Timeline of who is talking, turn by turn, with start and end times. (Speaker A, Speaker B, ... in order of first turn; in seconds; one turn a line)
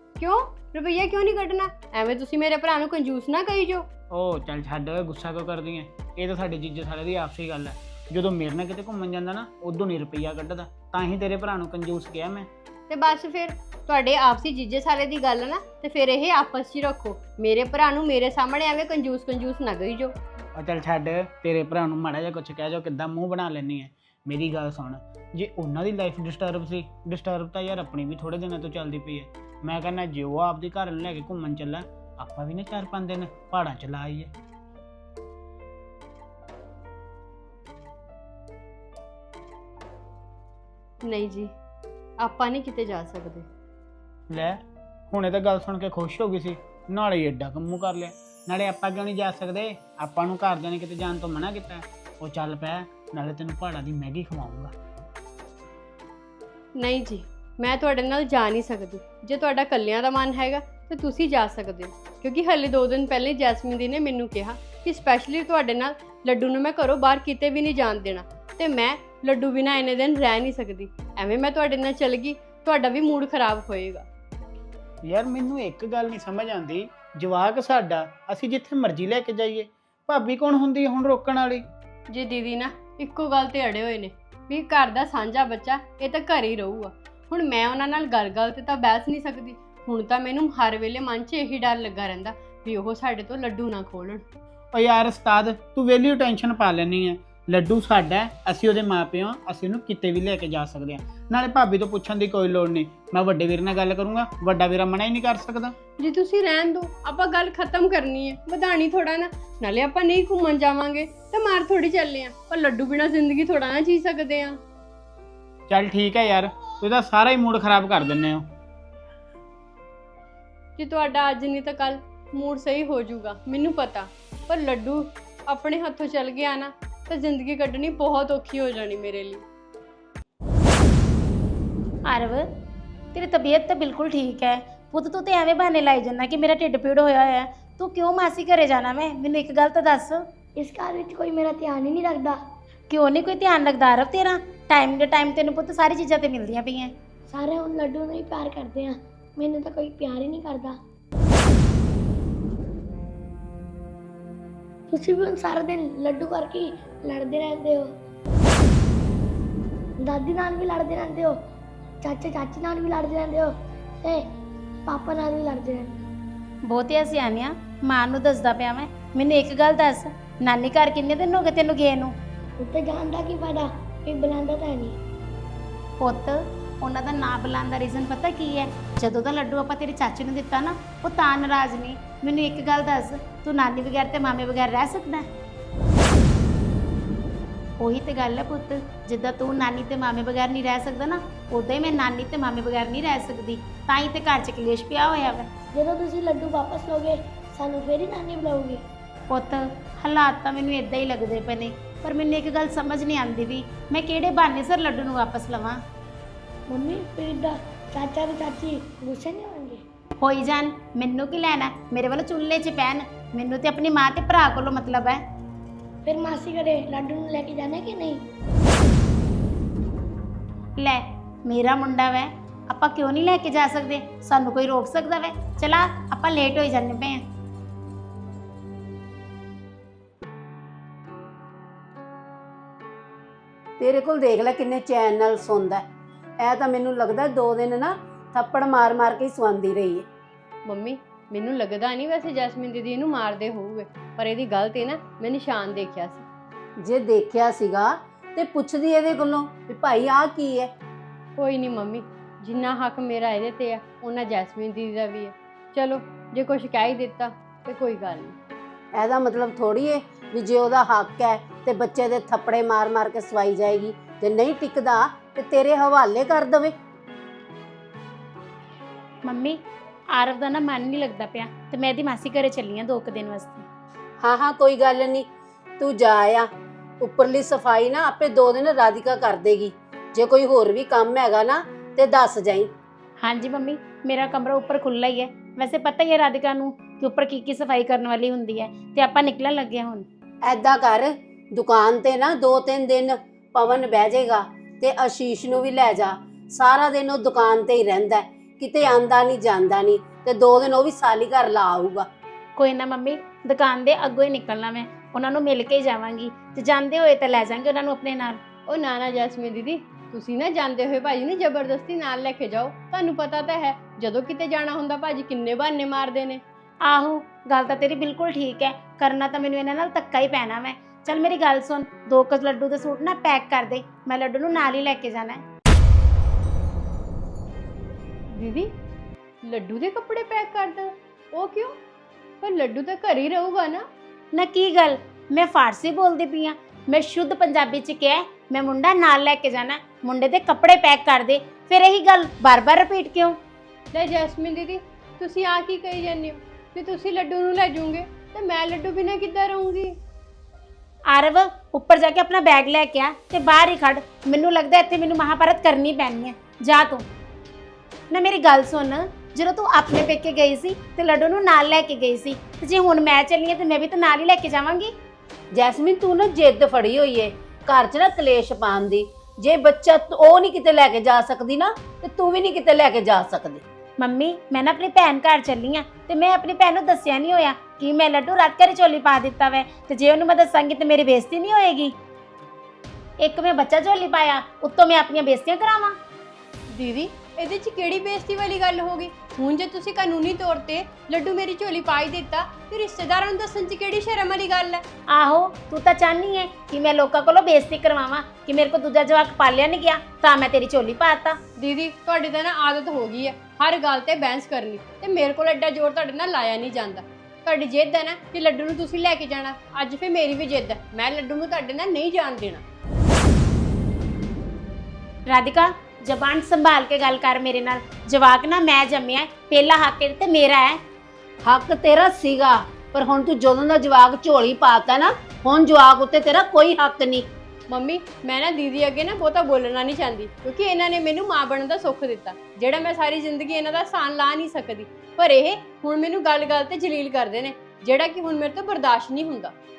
Speaker A: 0.2-3.9
Speaker B: 4.1-12.5
Speaker A: 12.9-20.1
Speaker B: 20.6-34.3
Speaker A: 41.0-41.5
Speaker A: 42.2-43.5
Speaker B: 44.3-44.6
Speaker B: 45.1-54.7
Speaker A: 56.8-74.0
Speaker B: 75.0-81.7
Speaker A: 82.1-94.2
Speaker B: 94.7-105.7
Speaker A: 106.0-114.6
Speaker B: 115.7-118.5
Speaker A: 120.8-129.4
Speaker C: 132.1-132.4
Speaker C: 133.1-140.2
Speaker D: 140.6-142.4
Speaker C: 142.9-146.9
Speaker D: 147.3-150.8
Speaker D: 154.9-157.9
Speaker D: 160.0-161.4
Speaker D: 162.0-164.2
Speaker D: 164.8-166.0
Speaker C: 166.7-172.1
Speaker D: 172.6-175.0
Speaker C: 176.0-185.3
Speaker C: 187.8-195.5
Speaker D: 195.7-198.8
Speaker C: 199.3-205.8
Speaker D: 206.7-209.8
Speaker C: 210.2-215.2
Speaker D: 216.0-218.2
Speaker C: 220.8-227.2
Speaker E: 233.8-235.8
Speaker E: 236.4-240.1
Speaker A: 240.7-246.2
Speaker E: 246.8-250.7
Speaker A: 251.4-258.4
Speaker E: 258.9-266.7
Speaker C: 269.2-269.6
Speaker C: 270.1-273.6
Speaker E: 274.2-275.3
Speaker E: 275.8-276.5
Speaker E: 277.0-282.7
Speaker C: 283.2-290.1
Speaker E: 290.4-302.1
Speaker C: 302.6-308.4
Speaker A: 308.7-316.4
Speaker C: 316.8-325.4
Speaker A: 328.3-328.7
Speaker A: 329.4-331.8
Speaker A: 332.4-333.8
Speaker C: 334.3-343.4
Speaker A: 343.9-350.0
Speaker C: 351.1-357.1
Speaker C: 358.1-364.9
Speaker E: 365.5-373.6
Speaker C: 374.0-381.9
Speaker C: 383.2-385.9
Speaker A: 386.7-394.8
Speaker C: 395.1-401.4
Speaker A: 401.6-412.6
Speaker C: 415.3-420.8
Speaker E: 421.4-427.3
Speaker A: 427.7-439.5